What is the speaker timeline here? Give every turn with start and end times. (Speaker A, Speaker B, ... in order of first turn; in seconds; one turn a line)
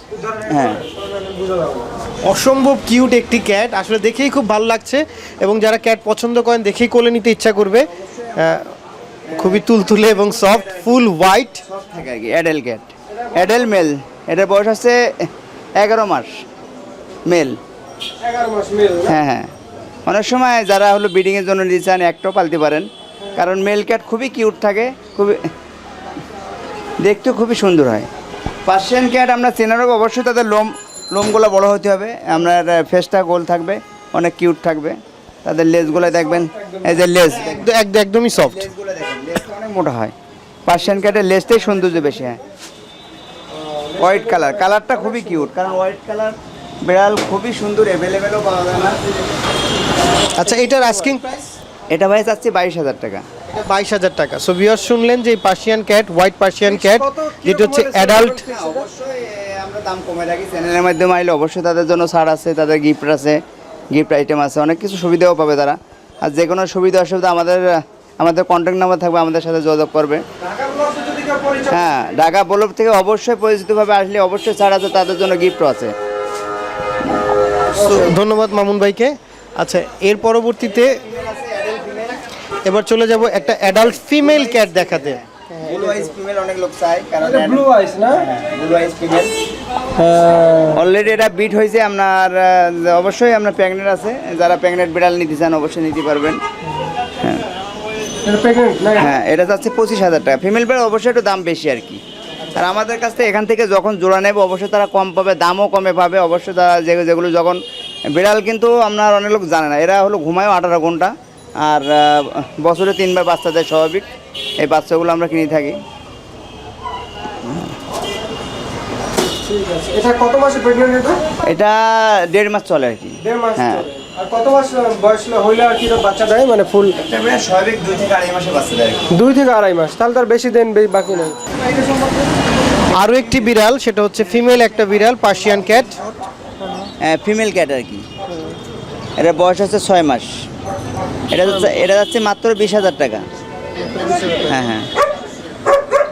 Speaker A: 0.1-1.9
Speaker B: 0.5-0.8
Speaker C: 2.3-7.8
Speaker C: 8.4-8.7
Speaker B: 9.3-11.1
Speaker C: 9.3-11.6
Speaker B: 11.6-16.4
Speaker A: 13.2-13.5
Speaker B: 17.3-17.6
Speaker A: 18.2-19.2
Speaker B: 19.1-19.5
Speaker B: 20.1-25.4
Speaker B: 27.0-28.1
Speaker B: 28.7-37.7
Speaker A: 35.9-37.0
Speaker C: 37.3-38.7
Speaker B: 38.4-40.1
Speaker B: 40.7-42.4
Speaker A: 43.5-45.5
Speaker B: 44.0-49.0
Speaker C: 50.4-51.5
Speaker B: 51.9-53.2
Speaker C: 53.5-58.5
Speaker A: 56.7-58.9
Speaker B: 58.4-70.2
Speaker A: 70.4-72.1
Speaker B: 71.7-75.9
Speaker C: 77.7-81.0
Speaker A: 77.8-78.2
Speaker B: 80.9-82.2
Speaker C: 82.7-85.2
Speaker B: 83.2-89.3
Speaker A: 85.5-86.1
Speaker A: 87.2-88.3
Speaker A: 90.0-90.8
Speaker B: 90.7-96.4
Speaker A: 98.2-99.1
Speaker B: 99.0-102.0
Speaker B: 102.5-107.6
Speaker B: 108.1-114.1
Speaker B: 114.6-115.8
Speaker B: 117.4-117.8
Speaker A: 119.4-121.2
Speaker B: 121.5-123.9
Speaker A: 123.2-127.0
Speaker B: 127.0-129.1
Speaker A: 129.1-132.3
Speaker C: 132.9-136.0
Speaker B: 137.0-138.1
Speaker B: 139.2-140.4
Speaker B: 141.3-143.3
Speaker A: 143.9-144.5
Speaker B: 144.5-144.9